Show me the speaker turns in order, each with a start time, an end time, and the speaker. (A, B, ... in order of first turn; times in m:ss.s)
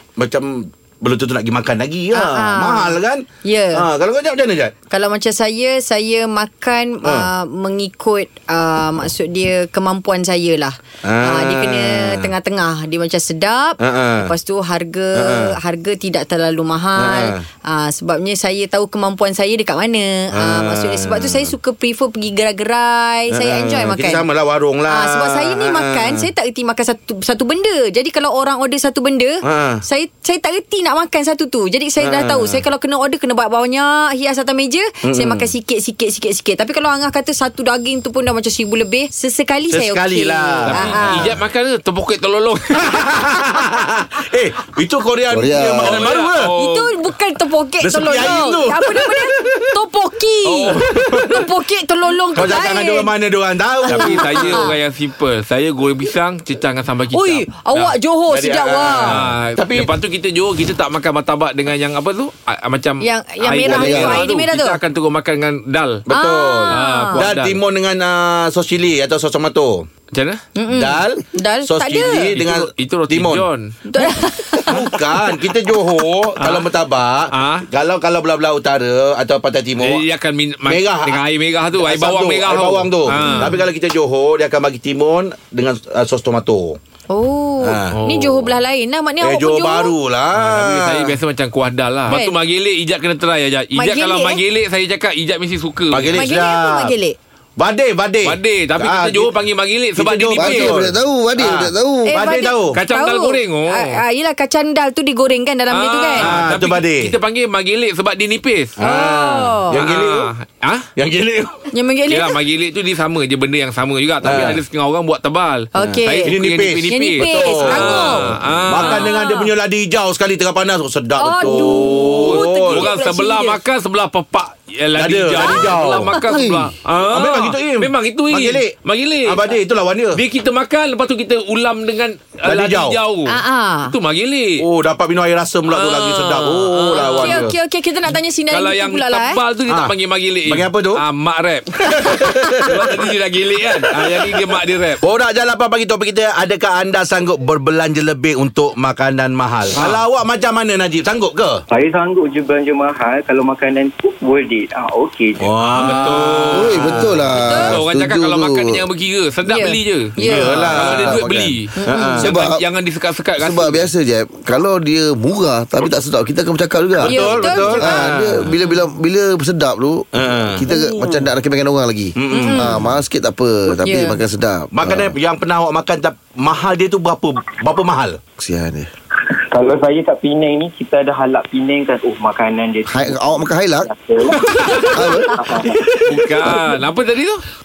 0:00.2-0:03.2 A
0:02.1-0:03.8 B
0:03.8-0:04.7 A
0:04.9-0:24.2 B
0:07.0-0:07.3 A
0:11.0-0:12.3 A
0:13.8-0:14.3 A
0:15.2-0:15.6 A
0:17.0-0:17.4 A
0:20.3-0:21.5 A
0:23.3-0:26.3 A
0:24.9-0:41.3 B
0:29.4-0:29.8 A
0:32.0-0:32.6 A
0:35.1-0:35.5 A
0:39.7-0:41.4 A
0:40.7-0:43.0 C
0:42.8-0:46.5 A
0:45.3-0:46.0 D
0:45.8-0:46.9 C
0:46.6-0:53.1 B
0:47.8-0:49.7 A
0:50.5-0:51.4 A
0:52.3-0:54.7 A
0:53.8-0:54.7 B
0:53.9-0:57.9 C
0:57.1-0:59.2 B
0:58.3-0:59.9 A
0:59.0-1:06.0 C
1:03.0-1:04.8 B
1:03.7-1:04.2 D
1:06.1-1:09.9 A
1:06.1-1:07.2 B
1:06.7-1:07.6 C
1:10.1-1:10.4 C
1:10.6-1:12.4 B
1:10.7-1:13.5 A
1:12.4-1:13.7 C
1:13.9-1:14.8 B
1:14.6-1:20.0 A
1:16.4-1:16.7 C
1:17.3-1:17.7 C
1:19.8-1:23.6 C
1:20.7-1:21.2 A
1:21.8-1:26.8 A
1:23.2-1:23.5 B
1:27.1-1:30.0 B
1:27.6-1:28.0 A
1:27.9-1:28.5 C
1:29.2-1:31.2 A
1:30.4-1:36.2 C
1:32.1-1:32.4 B
1:33.8-1:34.4 B
1:35.9-1:36.9 A
1:36.2-1:37.2 B
1:37.6-1:39.3 A
1:38.2-1:40.8 C
1:40.0-1:42.8 A
1:40.4-1:42.2 D
1:42.1-1:46.3 B
1:42.7-1:43.9 C
1:45.7-1:48.8 C
1:46.2-1:47.1 A
1:48.8-1:49.8 B
1:48.8-1:50.3 A
1:49.7-1:50.9 C
1:51.0-1:51.6 A
1:51.7-1:52.4 B
1:52.1-1:59.1 C
1:54.2-1:54.6 A
1:55.7-1:56.4 B
1:55.8-2:02.9 A
1:56.9-1:58.3 B
1:58.8-1:59.5 B
2:01.2-2:03.6 B
2:01.4-2:09.6 C
2:05.0-2:06.1 A
2:05.4-2:06.2 B
2:06.3-2:06.7 D
2:07.0-2:08.7 A
2:09.3-2:10.2 A
2:10.2-2:13.4 C
2:12.5-2:13.0 A
2:13.3-2:13.9 B
2:13.9-2:14.6 C
2:14.6-2:17.6 A
2:15.7-2:17.5 C
2:17.0-2:19.4 B
2:18.5-2:25.0 C
2:20.5-2:21.0 A
2:21.8-2:23.0 A
2:25.0-2:31.6 A
2:29.8-2:30.0 C
2:31.7-2:35.7 E
2:35.4-2:37.2 A
2:35.8-2:41.7 C
2:36.5-2:38.8 D
2:37.5-2:37.8 B
2:39.5-2:40.6 B
2:40.2-2:41.2 A
2:40.2-2:41.6 D
2:41.8-2:42.2 B
2:41.9-2:42.3 A
2:42.2-2:42.6 D
2:42.2-2:43.9 C
2:43.4-2:55.1 D
2:47.0-2:48.5 A
2:47.1-2:48.8 B
2:50.2-2:50.6 A
2:52.2-2:52.8 A
2:52.3-2:52.8 B
2:53.8-2:54.2 B
2:54.7-2:58.2 A
2:58.4-2:58.9 D
2:59.4-3:04.5 E
3:02.9-3:03.9 D
3:04.8-3:05.2 B
3:04.9-3:05.3 D
3:05.4-3:05.8 E
3:06.1-3:07.4 C